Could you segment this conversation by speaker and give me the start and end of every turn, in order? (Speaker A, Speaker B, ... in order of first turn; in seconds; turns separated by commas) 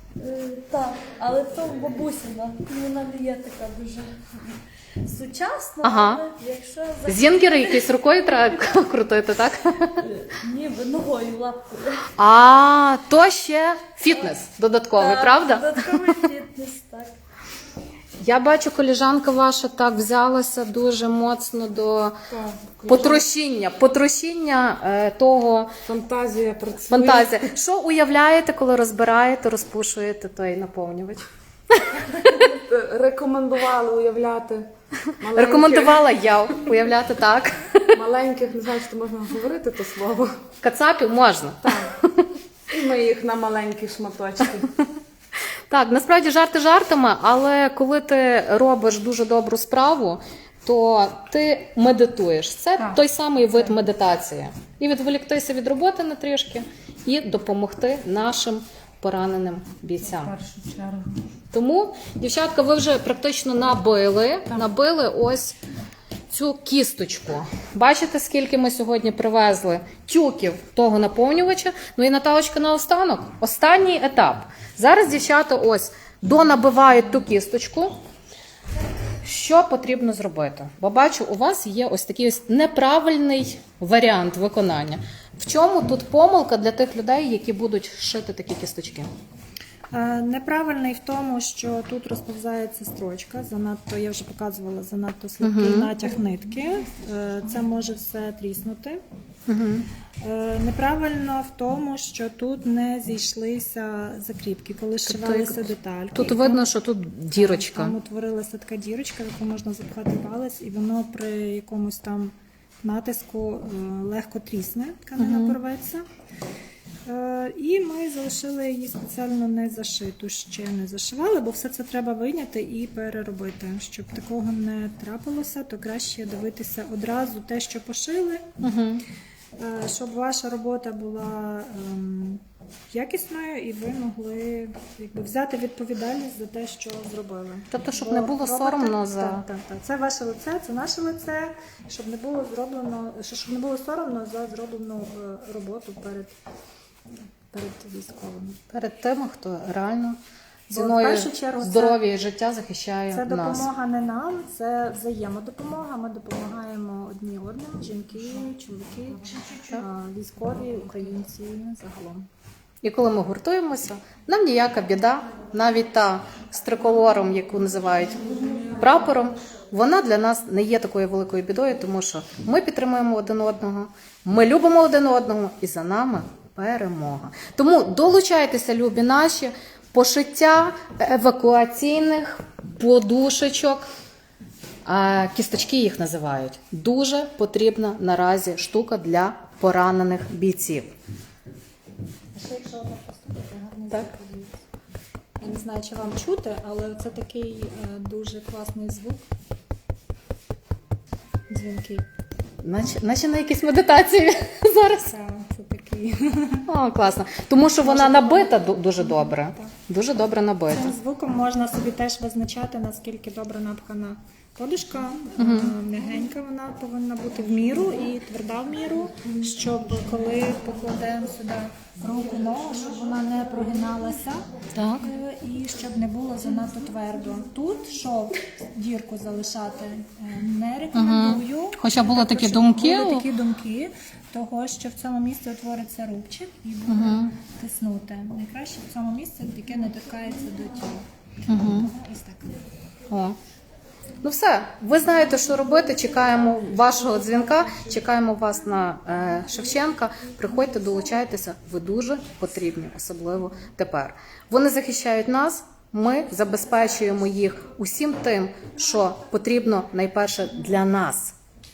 Speaker A: 0.2-7.6, Speaker B: 5.8-6.3, Speaker B: 7.0-10.0, Speaker A: 10.0-12.1, Speaker B: 12.2-16.3, Speaker A: 15.0-17.1, Speaker B: 18.2-22.1, Speaker C: 22.3-23.2, Speaker B: 22.8-25.7, Speaker C: 25.8-27.5, Speaker B: 26.9-32.6, Speaker C: 32.4-34.7, Speaker B: 35.1-38.0, Speaker C: 35.2-36.0, Speaker C: 37.9-40.4, Speaker B: 40.6-42.4, Speaker C: 41.6-41.9, Speaker C: 42.7-44.8, Speaker B: 45.7-60.4, Speaker C: 60.4-61.1, Speaker B: 61.5-65.6, Speaker B: 66.3-77.9, Speaker B: 79.2-89.1, Speaker D: 89.9-99.0, Speaker B: 95.4-95.9, Speaker B: 99.5-99.8, Speaker D: 100.2-106.7, Speaker B: 105.0-107.9, Speaker D: 107.3-116.0, Speaker B: 115.2-115.6, Speaker D: 117.0-128.5, Speaker B: 128.6-129.0, Speaker D: 129.6-146.3, Speaker B: 137.7-139.4, Speaker D: 147.5-148.6, Speaker B: 148.7-150.2, Speaker B: 150.7-153.7, Speaker D: 150.7-152.0, Speaker D: 153.1-162.2, Speaker B: 159.6-159.8, Speaker B: 162.8-183.9, Speaker B: 184.8-190.9, Speaker D: 192.3-194.6, Speaker D: 195.4-199.2, Speaker D: 201.5-202.0, Speaker B: 202.6-205.1, Speaker D: 205.1-206.6, Speaker B: 206.7-210.9, Speaker D: 207.8-209.7, Speaker D: 210.7-224.4, Speaker B: 215.4-215.7, Speaker B: 224.8-225.0, Speaker D: 225.0-242.6, Speaker B: 230.9-233.3, Speaker B: 236.9-237.3, Speaker B: 241.5-241.9, Speaker B: 243.1-243.4, Speaker B: 244.2-261.3